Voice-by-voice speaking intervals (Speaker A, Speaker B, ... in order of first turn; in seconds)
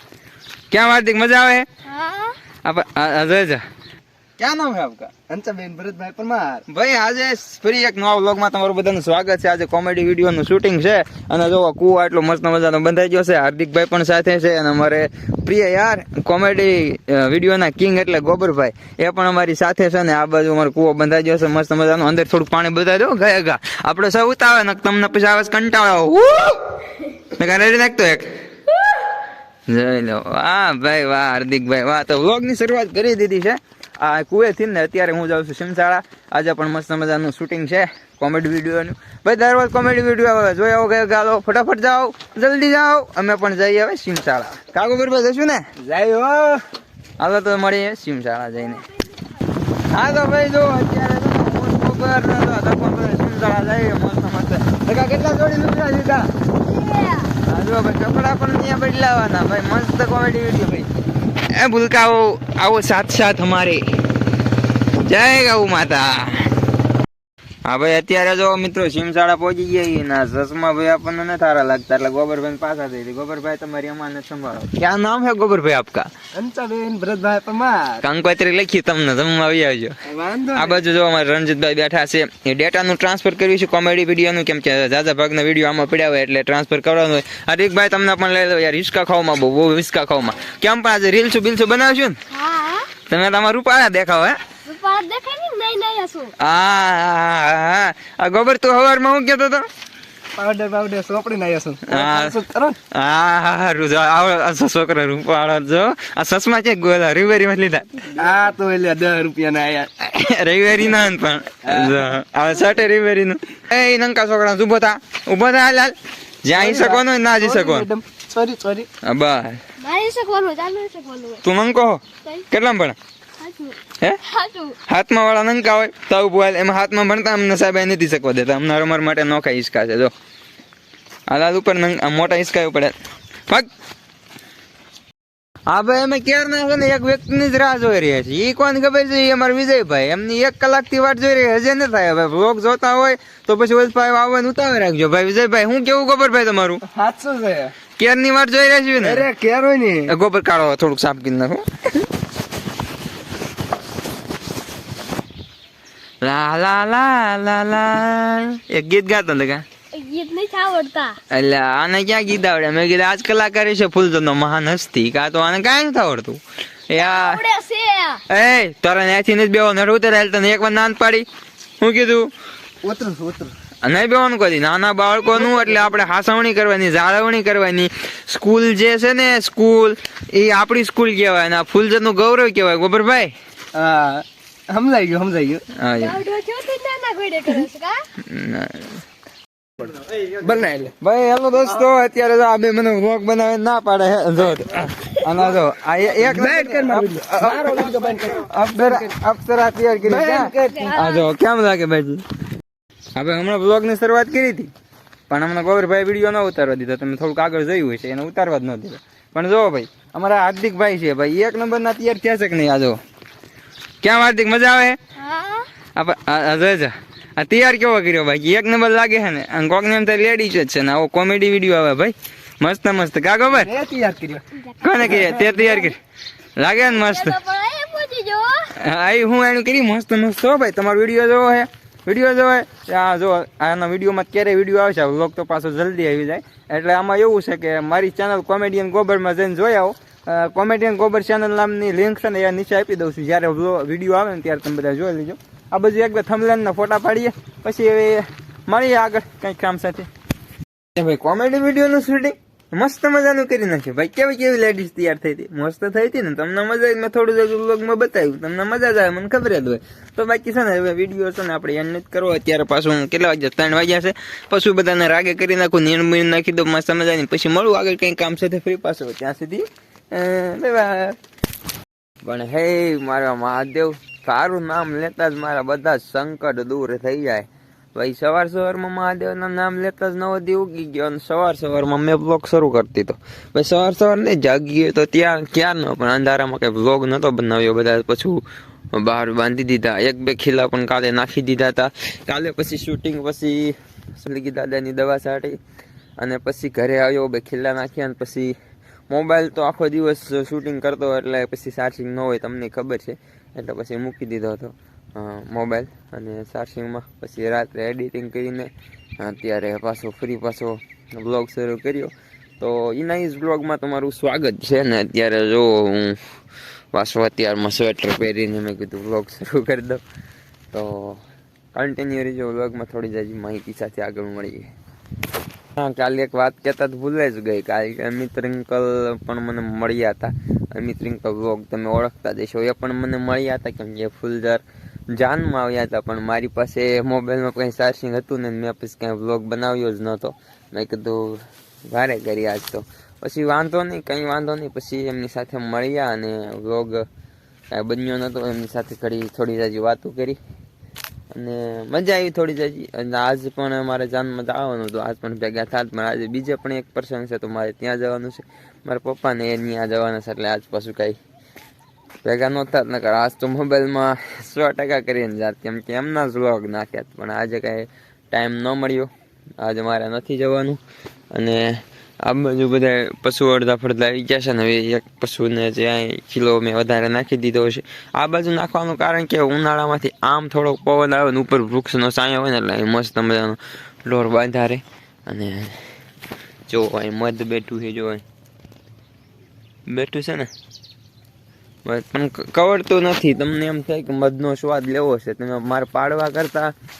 Speaker A: 0.7-1.6, 2.6-3.6, 4.4-5.1, 6.7-26.6, 27.3-28.3, 29.7-45.6, 47.2-48.8, 49.9-56.3, 57.4-60.9, 61.5-63.9, 65.0-66.5, 67.6-76.1, 78.0-79.9, 80.5-92.2, 93.0-94.4, 96.4-99.7, 101.9-102.4, 102.9-108.2, 110.0-117.9, 119.0-119.6, 121.4-122.9, 124.8-130.1, 131.3-132.9, 135.7-146.8, 148.0-149.3, 150.1-152.1, 156.2-159.6, 161.3-167.4, 168.3-171.2, 171.8-172.3, 173.8-183.3, 185.7-186.2, 188.2-189.0, 191.0-202.2, 203.1-204.7, 205.3-213.0, 214.0-215.0, 215.9-223.7, 224.8-226.0, 226.6-227.4, 228.8-250.1, 250.9-271.2, 272.2-288.4, 288.9-295.6, 296.2-298.6, 299.1-316.2, 316.9-320.0, 320.7-321.2, 321.7-324.7, 325.8-347.0, 347.7-350.4, 351.3-361.2, 362.2-370.8, 371.3-385.9, 386.7-388.2, 389.9-390.5, 391.8-396.7
Speaker B: 1.8-2.4, 56.6-57.3, 92.3-92.9, 94.6-96.3, 119.8-121.4, 123.4-124.8, 159.9-161.2, 166.9-168.2, 186.0-188.0, 200.7-201.3, 215.2-215.7, 224.7-225.2, 226.8-228.7
Speaker C: 5.3-6.6, 45.8-46.6, 76.3-78.0, 80.0-80.8, 100.3-102.8, 108.2-109.9, 111.6-112.0, 116.5-118.9, 146.8-147.7, 149.0-150.1, 172.8-173.5, 183.7-185.6, 190.2-190.9, 196.1-199.2, 200.0-201.0, 223.5-224.4, 225.0-225.6